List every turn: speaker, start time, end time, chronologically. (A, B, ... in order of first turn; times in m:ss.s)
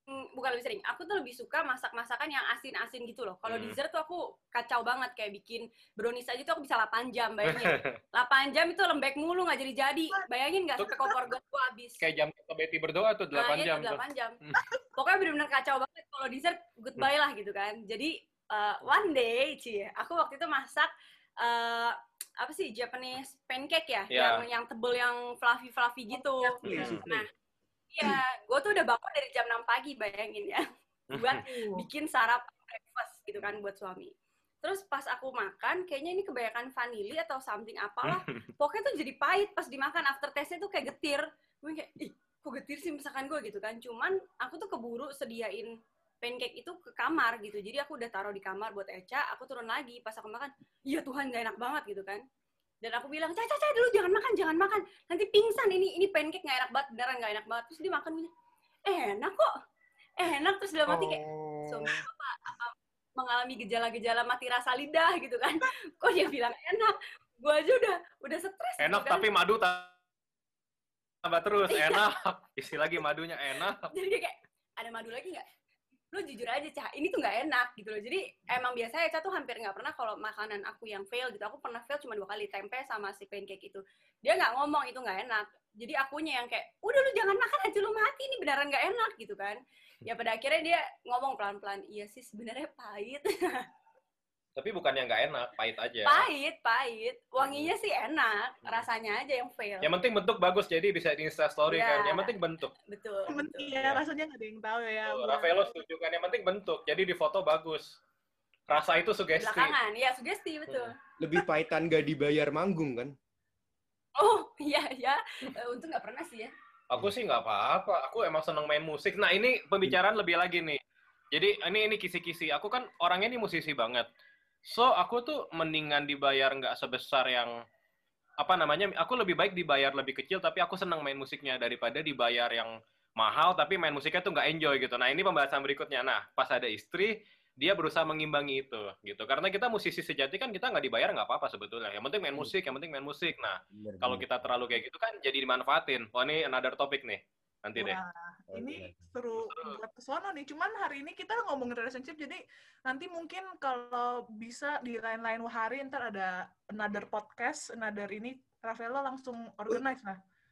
0:00.3-0:12.0 A
0:03.4-0:03.8 B
0:07.5-0:07.9 B
0:12.0-0:14.6 B
0:13.3-0:14.4 A
0:15.0-0:27.3 A
0:24.1-0:24.4 B
0:26.4-0:26.7 C
0:26.6-0:27.3 D
0:26.7-0:27.0 B
0:27.9-0:45.7 A
0:31.1-0:31.4 B
0:31.4-0:31.8 C
0:38.0-0:38.3 B
0:46.2-0:52.2 A
0:52.8-0:58.3 A
0:58.8-0:59.5 A
1:00.2-1:09.3 A
1:00.9-1:02.0 D
1:08.8-1:09.9 B
1:11.2-1:13.9 B
1:11.7-1:12.1 A
1:13.8-1:15.4 A
1:16.1-1:33.6 A
1:34.6-1:36.2 B
1:36.0-1:39.9 A
1:37.4-1:37.7 B
1:39.8-1:42.7 B
1:41.7-1:42.3 A
1:42.8-1:43.6 A
1:43.3-1:45.8 C
1:43.7-1:44.0 B
1:45.0-1:48.0 B
1:48.7-1:49.7 B
1:49.4-1:50.9 A
1:51.2-1:53.1 D
1:54.2-1:56.5 A
1:56.9-2:00.8 B
2:01.3-2:04.1 B
2:04.6-2:07.5 B
2:08.4-2:28.0 B
2:23.7-2:24.3 D
2:27.8-2:40.2 C
2:28.5-2:29.0 D
2:29.3-2:29.8 B